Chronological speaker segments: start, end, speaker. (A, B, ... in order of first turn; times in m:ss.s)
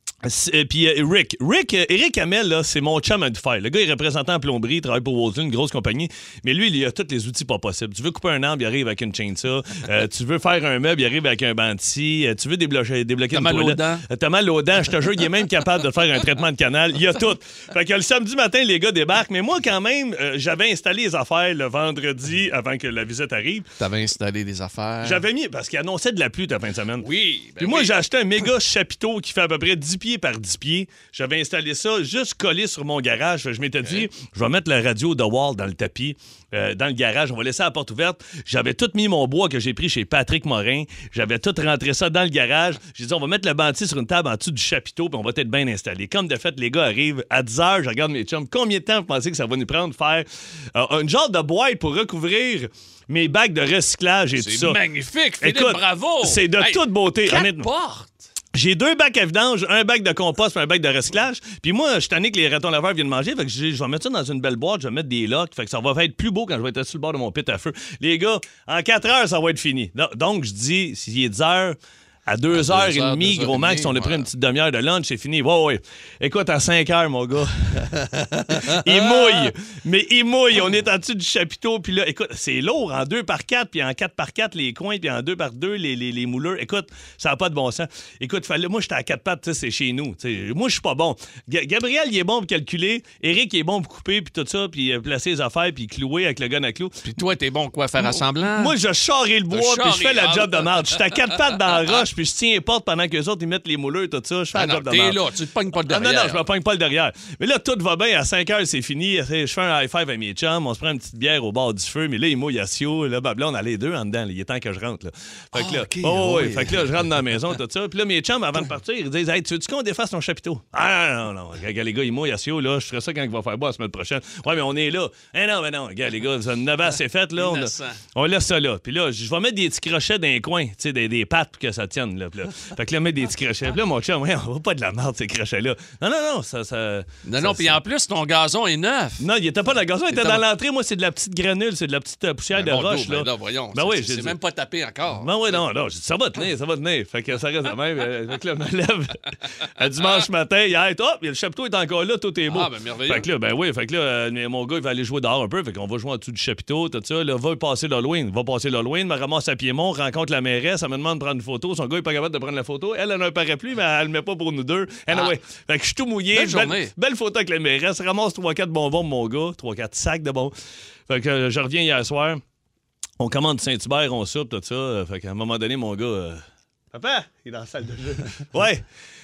0:00.2-0:23.7 A
0:13.3-0:14.0 B
0:23.8-0:25.2 B
0:25.0-0:27.1 A
0:27.0-0:28.0 B
0:27.6-0:54.8 A
0:33.8-0:34.1 B
0:54.4-0:58.3 B
0:55.4-0:57.7 A
0:58.5-1:37.0 A
1:12.5-1:14.3 B
1:18.5-1:19.5 B
1:37.0-1:38.7 B
1:38.0-1:45.2 A
1:39.5-1:42.0 B
1:44.5-1:46.4 B
1:45.8-2:17.8 A
1:55.5-1:57.2 B
2:07.4-2:08.0 B
2:17.2-2:19.2 B
2:19.2-2:24.4 A
2:20.1-2:20.4 B
2:22.5-2:25.6 B
2:25.1-2:50.5 A
2:32.5-2:33.3 B
2:46.3-2:46.9 B
2:51.1-2:52.4 A
2:53.2-2:58.8 A